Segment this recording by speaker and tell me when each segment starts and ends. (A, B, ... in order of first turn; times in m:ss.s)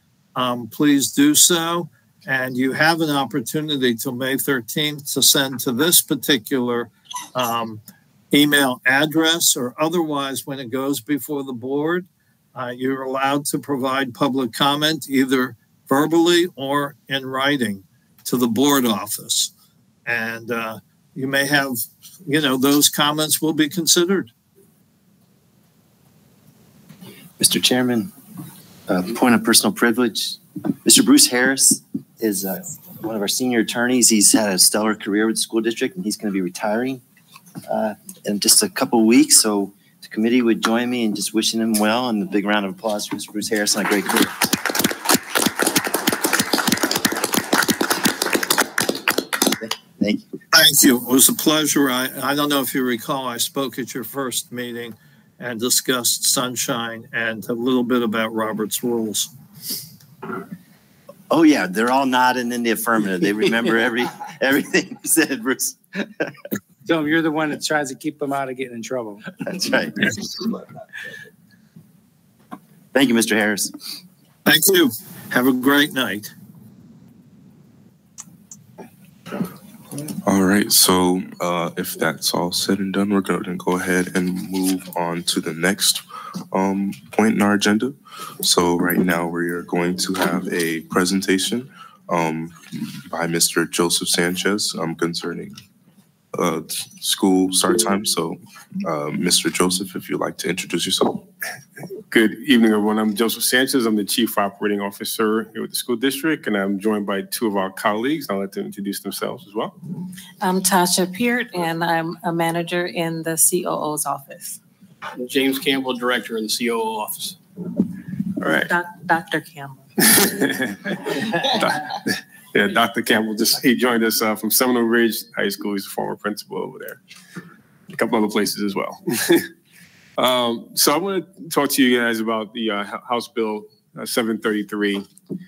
0:00.3-0:19.5 A
0:20.0-0:24.3 A
0:27.4-0:28.1 B
0:28.9-0:37.0 B
0:37.7-0:44.4 B
0:50.0-0:50.2 B
0:50.5-0:59.3 A
1:01.3-1:06.2 B
1:06.8-1:09.2 C
1:09.4-1:10.2 B
1:12.9-1:13.7 B
1:14.4-1:16.3 A
1:20.2-1:35.6 D
1:36.3-1:41.3 D
1:42.1-1:49.7 E
1:50.4-1:54.6 F
1:55.2-1:57.4 G
1:58.4-1:58.7 E
1:58.6-2:00.2 F
2:00.0-2:00.9 E
2:01.5-2:01.9 E
2:02.5-2:07.0 E
2:07.9-2:09.5 E
2:10.2-2:15.0 E